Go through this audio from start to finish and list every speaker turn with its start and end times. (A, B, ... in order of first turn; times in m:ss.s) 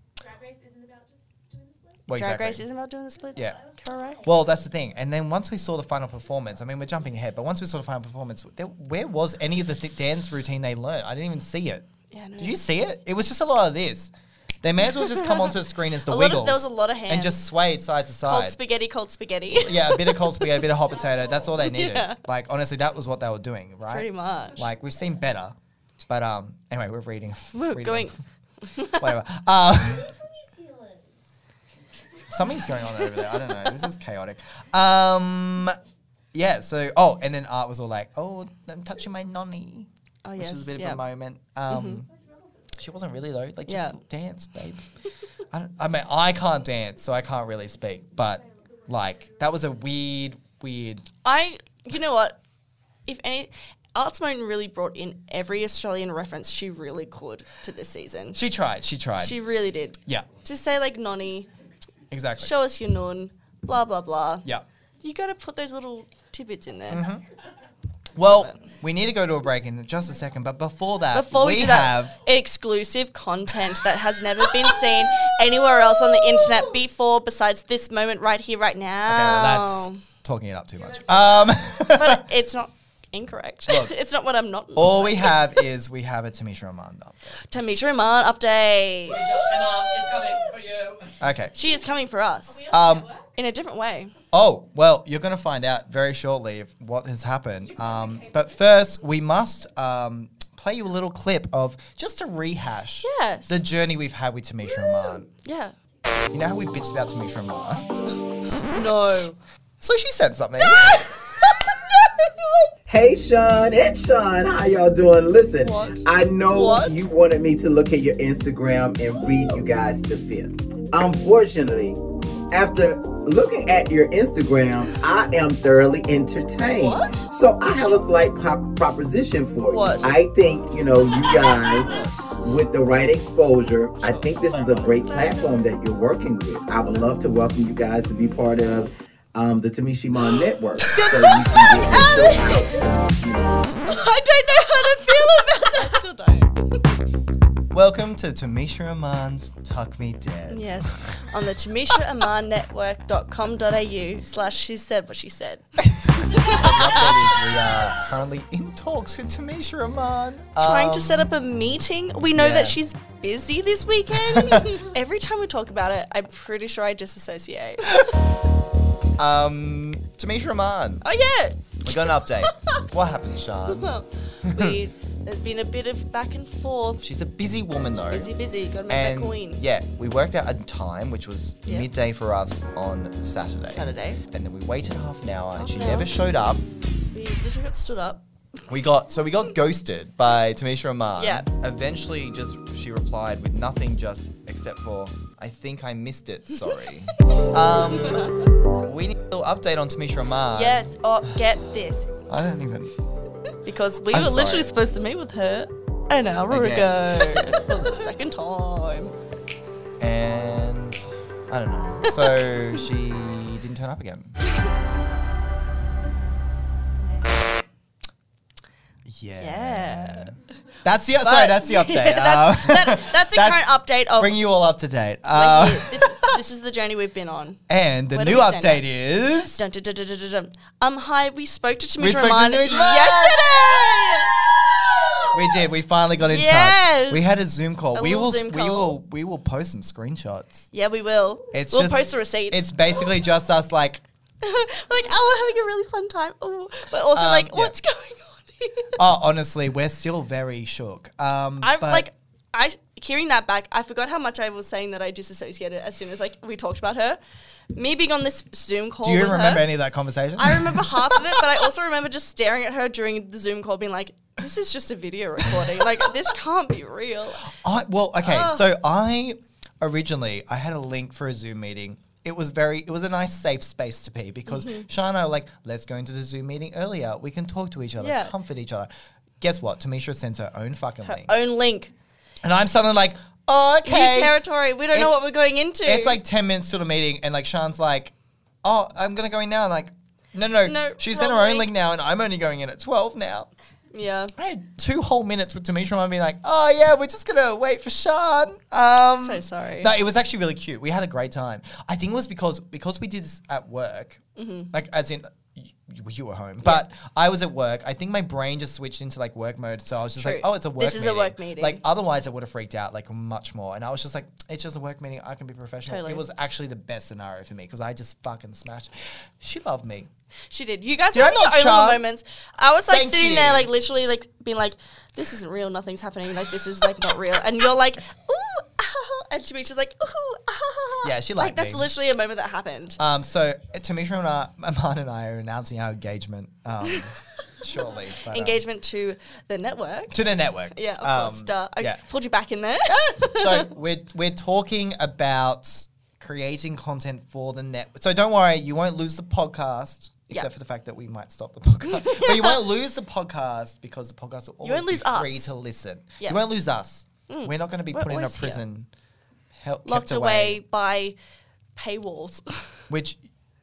0:00.2-0:02.0 A
0:02.1-0:02.6 B
0:02.1-0:04.3 C
0:03.4-0:04.7 A
0:04.2-0:11.9 B
0:12.1-0:12.6 C
0:12.4-0:18.6 B
0:15.0-0:17.4 C
0:18.2-0:20.7 C
0:19.5-0:25.6 B
0:21.6-0:22.2 C
0:23.9-0:24.6 C
0:26.1-0:28.2 B
0:27.6-0:29.2 C
0:29.0-0:30.1 B
0:29.9-0:31.2 A
0:32.3-0:35.8 B
0:36.3-0:42.1 B
0:40.2-0:41.0 C
0:41.7-0:42.0 C
0:42.1-0:42.7 A
0:42.8-0:44.8 B
0:43.7-0:44.0 C
0:45.5-0:51.1 B
0:48.9-0:49.2 A
0:51.2-0:52.4 C
0:53.1-0:58.4 C
0:58.4-0:59.4 B
0:59.2-1:01.5 C
1:02.1-1:02.5 B
1:02.4-1:04.4 C
1:05.0-1:07.0 C
1:06.9-1:07.2 B
1:08.2-1:12.1 B
1:08.2-1:08.6 C
1:11.1-1:20.0 C
1:19.1-1:22.2 B
1:21.1-1:21.5 D
1:21.9-1:25.6 C
1:24.8-1:27.4 B
1:27.5-1:29.4 C
1:29.1-1:31.2 D
1:31.2-1:31.6 B
1:31.6-1:32.7 C
1:32.5-1:33.3 A
1:32.7-1:33.1 B
1:33.4-1:34.1 C
1:34.3-1:45.3 B
1:37.7-1:38.4 A
1:43.0-1:43.6 C
1:44.8-1:45.8 C
1:46.3-1:47.8 B
1:48.6-1:49.4 C
1:49.8-1:51.6 B
1:50.6-1:52.7 C
1:52.9-2:23.7 E
1:55.6-1:57.1 C
2:06.6-2:07.2 C
2:09.7-2:10.2 C
2:11.9-2:12.1 C
2:14.7-2:15.4 C
2:20.8-2:22.8 C
2:23.8-2:26.7 C
2:27.7-2:31.2 B
2:30.5-2:37.3 C
2:36.0-2:41.3 B
2:40.6-2:48.1 C
2:42.4-2:42.8 B
2:44.1-2:44.8 B
2:49.2-2:51.0 B
2:51.0-2:52.6 C
2:51.8-2:53.9 B
2:53.7-2:57.0 C
2:54.4-2:54.8 B
2:57.0-2:58.3 B
2:58.1-2:59.6 C
2:58.9-3:06.6 B
3:03.7-3:04.2 C
3:05.6-3:08.2 C
3:08.7-3:20.9 B
3:11.2-3:11.5 C
3:17.8-3:18.4 C
3:20.6-3:22.1 C
3:22.3-3:22.9 B
3:23.6-3:29.1 C
3:24.1-3:24.7 B
3:26.5-3:27.6 B
3:30.0-3:34.4 B
3:32.1-3:32.4 C
3:39.1-3:46.4 B
3:39.4-3:40.3 C
3:41.2-3:44.4 C
3:45.3-3:48.9 C
3:47.7-3:49.6 B
3:49.5-3:55.3 C
3:52.0-3:54.2 B
3:55.3-4:00.7 B
3:56.3-3:57.2 C
3:57.9-3:59.0 C
4:00.7-4:03.0 C
4:01.5-4:04.0 B
4:04.4-4:08.9 C
4:07.1-4:07.8 B
4:09.0-4:12.1 B
4:11.6-4:17.2 C
4:17.7-4:19.7 C
4:19.0-4:21.6 B
4:20.4-4:27.5 C
4:25.6-4:26.1 B
4:27.4-4:41.3 B
4:28.2-4:28.6 C
4:34.5-4:34.9 C
4:38.0-4:38.3 C
4:41.0-4:41.9 C
4:42.4-4:44.3 B
4:43.8-4:46.2 C
4:45.8-4:53.5 B
4:50.6-4:51.7 C
4:53.9-4:54.3 C
4:54.4-5:20.1 B
4:59.2-4:59.9 C
5:04.4-5:04.7 C
5:10.2-5:11.8 C
5:15.9-5:16.2 C
5:20.5-5:33.0 C
5:21.1-5:22.0 B
5:22.9-5:23.7 B
5:31.0-5:31.9 B
5:33.0-5:38.6 B
5:37.8-5:43.7 C
5:40.1-5:42.0 B
5:42.9-5:58.9 B
5:51.8-5:52.6 C
5:54.6-5:55.5 C
5:56.2-5:56.6 C
5:57.3-5:58.6 C
5:59.6-6:00.6 B
5:59.9-6:01.2 C
6:01.8-6:02.6 C
6:02.9-6:03.2 B